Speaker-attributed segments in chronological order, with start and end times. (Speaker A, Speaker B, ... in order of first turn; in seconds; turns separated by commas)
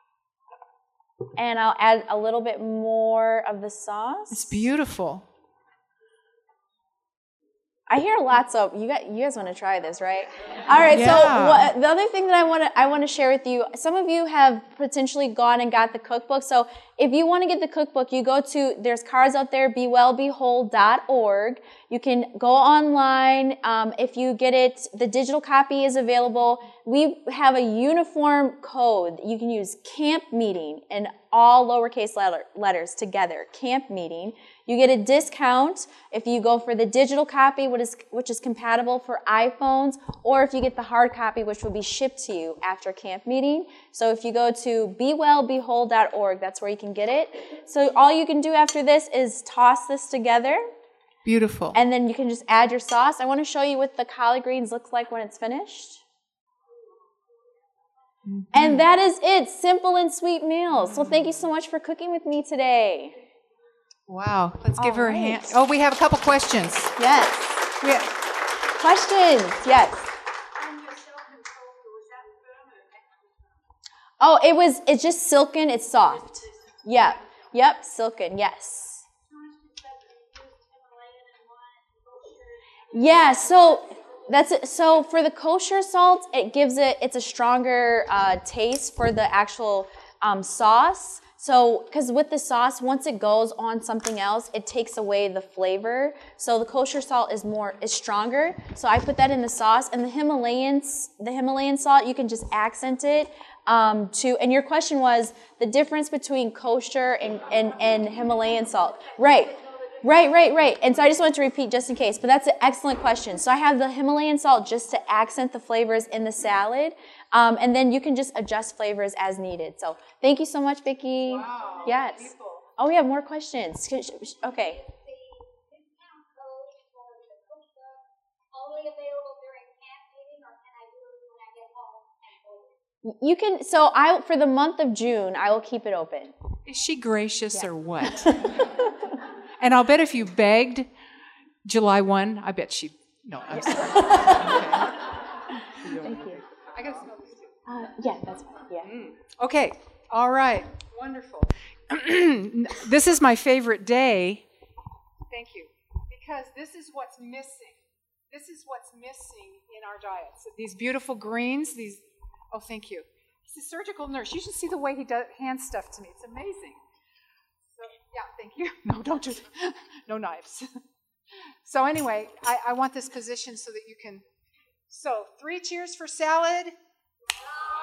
Speaker A: 1.4-4.6, Speaker B: 4.3-5.2, Speaker A: 7.9-50.7, Speaker B: 10.9-11.7, Speaker B: 51.2-51.8, Speaker A: 51.7-56.0, Speaker B: 58.3-58.8, Speaker A: 58.5-63.2, Speaker B: 64.1-66.9, Speaker A: 64.8-65.5, Speaker A: 67.0-67.8, Speaker B: 67.8-68.1, Speaker A: 68.7-70.1, Speaker C: 70.7-72.3, Speaker A: 74.2-79.0, Speaker C: 79.5-82.3, Speaker A: 82.9-124.8, Speaker B: 121.6-122.3, Speaker C: 124.6-132.8, Speaker A: 133.0-136.3, Speaker B: 136.7-138.6, Speaker A: 138.0-138.7, Speaker B: 139.6-140.9, Speaker B: 141.6-144.9, Speaker A: 143.9-144.9, Speaker A: 145.8-146.4, Speaker B: 145.8-146.2, Speaker B: 146.7-147.5, Speaker A: 147.7-148.9, Speaker B: 148.8-154.4, Speaker B: 155.3-166.8, Speaker B: 167.8-170.7, Speaker B: 171.6-174.2, Speaker B: 174.9-176.7